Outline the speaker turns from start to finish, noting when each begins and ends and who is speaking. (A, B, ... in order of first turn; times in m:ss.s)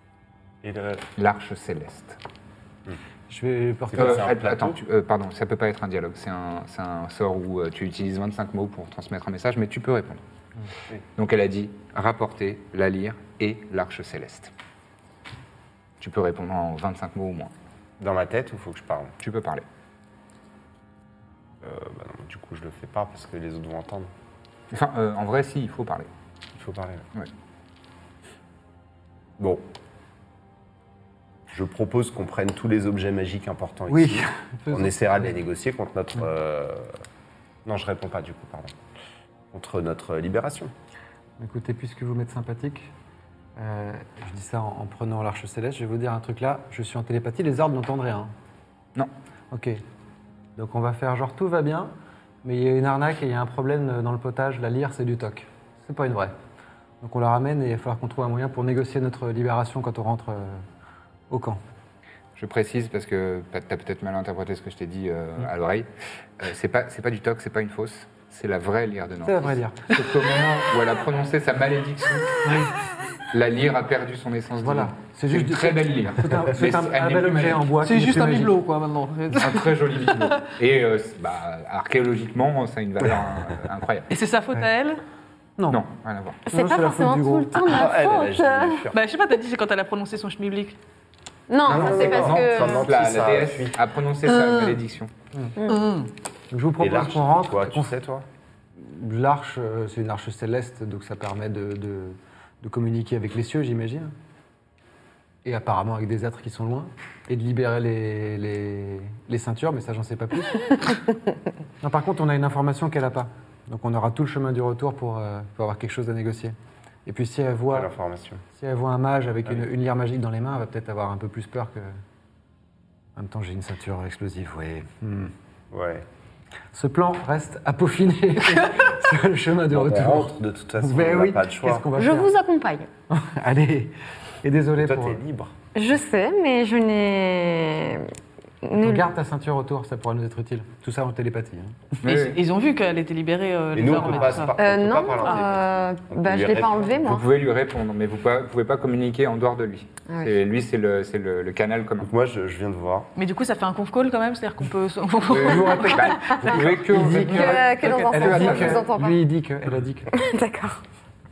0:00.6-0:01.1 A
0:01.2-0:02.2 B
0:03.3-0:04.3 C
0:03.9-0:04.8 A
0:04.0-0:10.2 B
0:11.2-0:14.5 B
0:16.0-0:17.5 B
0:18.0-0:19.2 A
0:19.2-0:19.6 B
0:21.6-0:24.1 A
0:24.7-0:26.1 B
0:26.6-0:27.1 A
0:29.4-0:29.7 A
0:31.5-0:37.0 A
0:33.9-0:35.4 C
0:37.6-0:38.8 A
0:39.5-0:40.7 A
0:41.4-0:42.9 C
0:43.6-0:48.3 C
0:49.5-0:49.8 C
0:50.6-0:51.9 C
0:52.4-0:56.3 C
0:57.0-1:00.6 C
1:01.3-1:01.6 C
1:02.4-1:05.9 B
1:06.4-1:12.5 B
1:09.2-1:09.8 C
1:12.4-1:12.7 C
1:13.3-1:17.8 B
1:14.6-1:18.5 C
1:17.8-1:20.5 D
1:19.3-1:24.1 B
1:24.1-1:25.0 D
1:25.6-1:25.8 C
1:25.7-1:26.4 B
1:26.4-1:28.8 E
1:26.5-1:27.8 C
1:27.6-1:29.0 A
1:28.9-1:30.8 D
1:31.5-1:32.9 E
1:31.7-1:35.1 B
1:31.7-1:33.8 A
1:35.6-1:35.8 E
1:35.7-1:36.1 D
1:36.5-1:37.9 C
1:36.8-1:38.3 A
1:38.8-1:44.2 C
1:45.4-1:50.9 C
1:51.8-1:57.9 C
1:57.7-1:58.4 A
1:58.6-2:02.0 C
2:03.2-2:05.3 C
2:05.7-2:06.1 A
2:06.7-2:12.3 C
2:09.7-2:11.9 A
2:11.9-2:12.9 E
2:13.1-2:15.2 C
2:14.8-2:15.5 A
2:15.8-2:18.1 E
2:18.6-2:19.1 E
2:18.8-2:21.9 C
2:22.0-2:22.4 B
2:22.0-2:24.5 D
2:23.7-2:27.0 A
2:24.6-2:27.3 E
2:27.0-2:32.1 B
2:30.1-2:30.4 E
2:32.0-2:33.1 A
2:33.2-2:36.8 D
2:35.3-2:38.9 B
2:35.4-2:40.1 C
2:37.3-2:39.2 E
2:37.8-2:38.5 D
2:40.1-2:40.8 E